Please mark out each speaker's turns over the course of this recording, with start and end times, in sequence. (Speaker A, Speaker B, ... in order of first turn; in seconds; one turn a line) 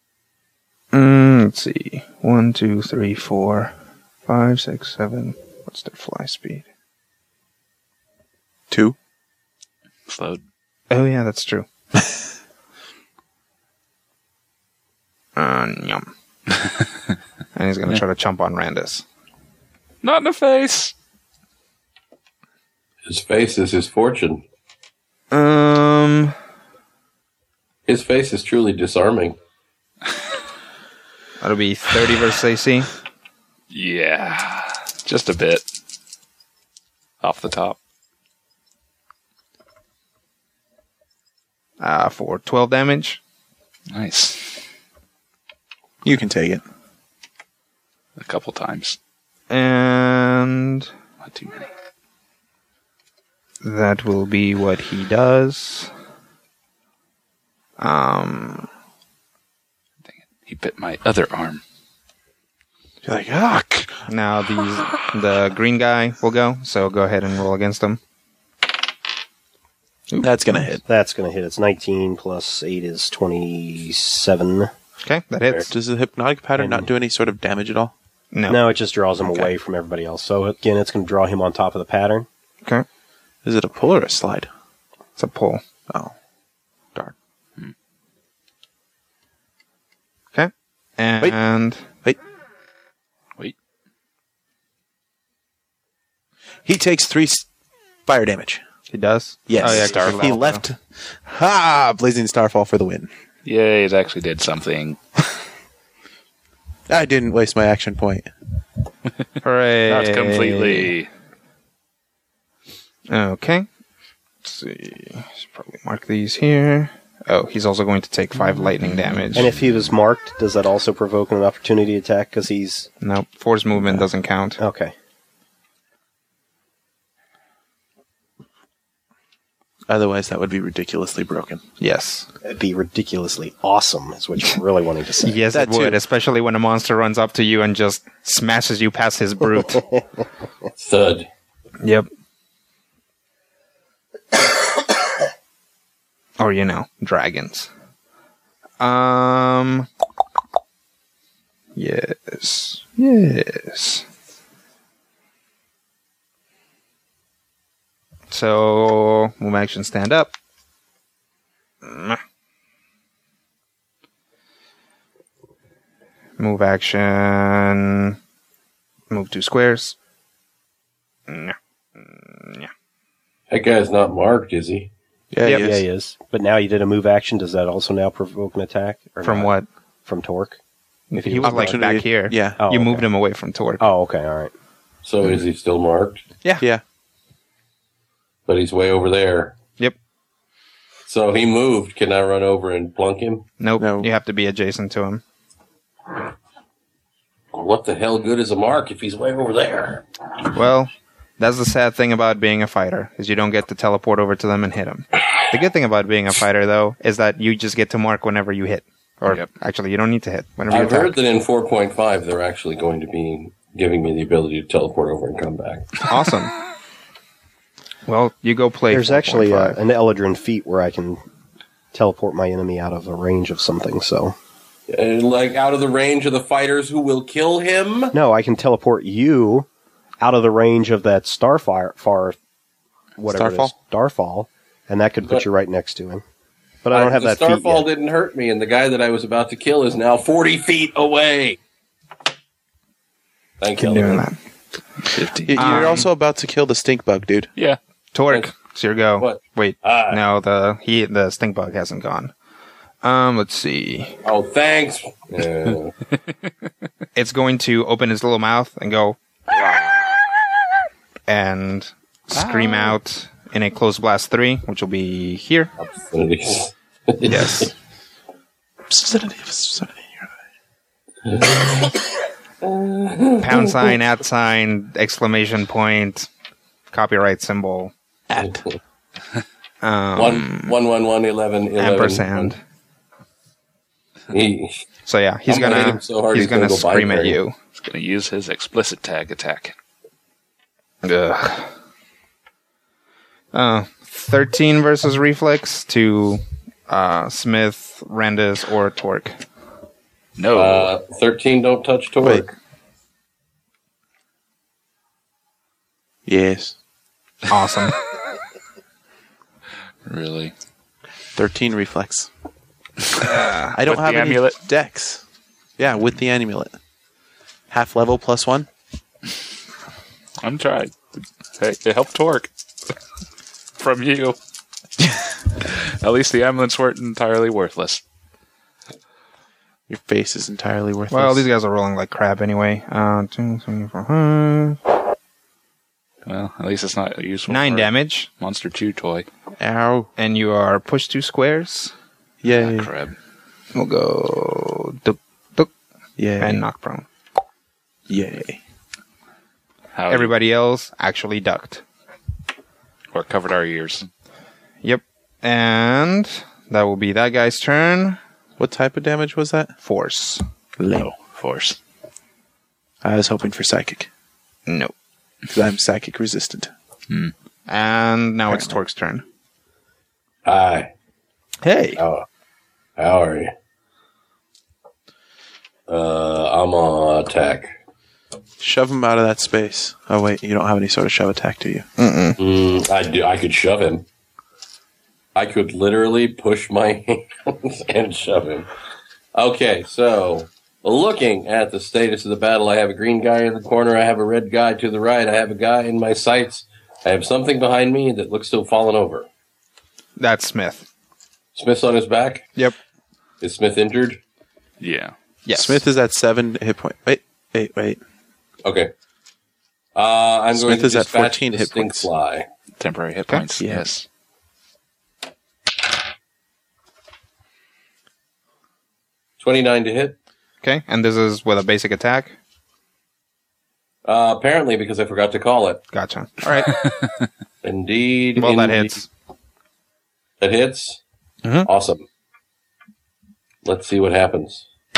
Speaker A: 0.9-3.7
Speaker A: 4.3-6.6
Speaker B: 8.7-8.9
Speaker C: 10.1-10.4
Speaker A: 10.9-11.7
Speaker A: 15.3-16.1
Speaker A: 17.5-19.0
Speaker C: 20.0-20.9
Speaker D: 23.1-24.4
Speaker A: 25.3-26.3
Speaker D: 27.9-29.4
Speaker A: 31.4-32.9
Speaker C: 33.7-35.6
Speaker C: 37.2-37.8
Speaker A: 41.8-43.2
Speaker C: 43.9-44.6
Speaker B: 46.0-46.6
Speaker C: 48.2-49.0
Speaker A: 49.5-50.9
Speaker C: 51.2-51.7
Speaker A: 53.6-55.9
Speaker A: 57.8-58.7
Speaker C: 60.1-61.6
Speaker B: 63.0-65.0
Speaker A: 64.1-68.0
Speaker A: 70.1-70.7
Speaker B: 70.2-70.8
Speaker E: 70.8-74.7
Speaker A: 75.0-75.7
Speaker B: 75.6-77.9
Speaker E: 76.6-76.9
Speaker A: 78.3-78.6
Speaker E: 78.5-82.3
Speaker B: 83.4-84.5
Speaker A: 85.2-85.6
Speaker A: 90.3-91.8
Speaker B: 96.6-97.5
Speaker B: 98.0-98.6
Speaker A: 98.9-100.6
Speaker B: 99.5-103.1
Speaker C: 99.6-100.2
Speaker C: 103.4-105.0
Speaker B: 106.9-108.3
Speaker A: 109.4-110.9
Speaker C: 109.8-111.1
Speaker A: 113.1-113.7
Speaker A: 114.4-119.5
Speaker C: 118.8-119.5
Speaker E: 119.3-122.9
Speaker A: 123.0-124.6
Speaker E: 123.8-124.0
Speaker E: 124.6-124.9
Speaker B: 129.9-131.6
Speaker A: 131.8-132.3
Speaker E: 132.4-135.4
Speaker A: 135.2-139.9
Speaker B: 135.5-136.0
Speaker D: 140.8-141.3
Speaker A: 141.8-142.1
Speaker A: 146.4-147.7
Speaker A: 148.8-149.9
Speaker A: 151.7-154.0
Speaker A: 158.3-160.3
Speaker A: 161.8-162.2
Speaker A: 166.4-168.2
Speaker A: 169.1-169.9
Speaker A: 171.3-172.7
Speaker D: 173.5-174.9
Speaker B: 175.3-175.8
Speaker E: 175.5-180.6
Speaker A: 179.2-179.7
Speaker A: 181.1-183.8
Speaker E: 181.1-181.8
Speaker B: 181.4-182.6
Speaker E: 182.6-183.0
Speaker E: 183.8-184.5
Speaker D: 185.0-186.2
Speaker B: 186.4-186.8
Speaker D: 188.5-189.5
Speaker D: 191.1-193.4
Speaker A: 193.6-195.2
Speaker B: 193.8-194.1
Speaker D: 197.5-200.0
Speaker A: 200.5-211.2
Speaker D: 210.7-216.0
Speaker A: 216.1-216.6
Speaker A: 218.1-219.8
Speaker E: 218.9-221.2
Speaker E: 221.9-224.3
Speaker D: 224.9-228.1
Speaker E: 228.1-229.7
Speaker E: 230.2-232.4
Speaker B: 233.2-233.7
Speaker E: 233.2-236.2
Speaker E: 236.8-237.9
Speaker D: 236.9-241.6
Speaker D: 243.6-244.3
Speaker A: 243.8-244.4
Speaker C: 245.1-246.0
Speaker B: 245.3-247.5
Speaker A: 245.6-246.1
Speaker A: 248.1-252.3
Speaker D: 249.2-250.2
Speaker A: 253.0-254.2
Speaker D: 254.2-255.9
Speaker A: 257.1-259.2
Speaker A: 261.3-265.7
Speaker C: 262.3-262.9
Speaker D: 265.8-267.7
Speaker A: 267.2-267.7
Speaker B: 268.9-270.3
Speaker D: 271.2-273.9
Speaker A: 273.4-276.3
Speaker A: 276.9-277.9
Speaker B: 278.3-278.6
Speaker A: 279.8-280.8
Speaker D: 280.1-282.5
Speaker A: 281.8-282.6
Speaker D: 284.3-284.8
Speaker A: 285.1-287.5
Speaker D: 285.5-287.4
Speaker C: 287.8-289.7
Speaker A: 291.0-291.7
Speaker A: 293.5-299.4
Speaker C: 300.4-300.9
Speaker D: 300.5-302.5
Speaker B: 306.2-306.8
Speaker A: 307.5-307.9
Speaker C: 310.1-310.5
Speaker B: 311.3-312.3
Speaker A: 313.1-313.8
Speaker B: 313.7-315.2
Speaker C: 313.8-314.6
Speaker B: 315.8-316.8
Speaker B: 317.7-318.7
Speaker C: 320.4-322.5
Speaker C: 323.8-324.4
Speaker C: 325.6-328.0
Speaker B: 329.9-331.5
Speaker A: 331.1-334.8
Speaker C: 336.2-339.3
Speaker A: 337.5-338.3
Speaker B: 339.6-340.1
Speaker A: 340.2-341.9
Speaker B: 342.4-342.9
Speaker C: 342.5-343.1
Speaker A: 343.7-345.7
Speaker B: 346.2-346.6
Speaker A: 346.4-347.1
Speaker B: 348.1-348.6
Speaker C: 349.9-350.4
Speaker A: 350.1-351.8
Speaker C: 353.1-354.1
Speaker A: 354.8-358.2
Speaker B: 358.6-359.7
Speaker A: 359.8-360.4
Speaker B: 360.8-361.1
Speaker C: 360.9-361.8
Speaker B: 363.0-364.1
Speaker A: 364.7-364.9
Speaker B: 365.5-366.7
Speaker A: 367.7-369.2
Speaker B: 368.5-368.8
Speaker D: 370.4-370.9
Speaker A: 371.6-372.0
Speaker D: 372.0-372.2
Speaker D: 373.0-373.5
Speaker D: 375.9-377.7
Speaker B: 378.6-381.9
Speaker A: 382.0-382.4
Speaker D: 382.4-384.0
Speaker D: 385.3-388.7
Speaker D: 389.3-399.3
Speaker A: 400.2-400.9
Speaker D: 401.5-402.5
Speaker D: 403.4-404.2
Speaker C: 404.8-405.1
Speaker A: 405.4-405.8
Speaker B: 405.5-408.0
Speaker D: 408.6-408.9
Speaker D: 409.9-412.5
Speaker B: 410.5-412.1
Speaker C: 412.8-414.1
Speaker B: 413.6-413.9
Speaker D: 419.4-420.1
Speaker A: 420.6-422.3
Speaker D: 424.0-425.8
Speaker A: 425.9-426.7
Speaker C: 426.7-427.1
Speaker D: 427.6-428.9
Speaker A: 428.4-429.1
Speaker D: 430.4-431.0
Speaker A: 431.4-431.7
Speaker D: 431.6-432.0
Speaker D: 433.6-434.7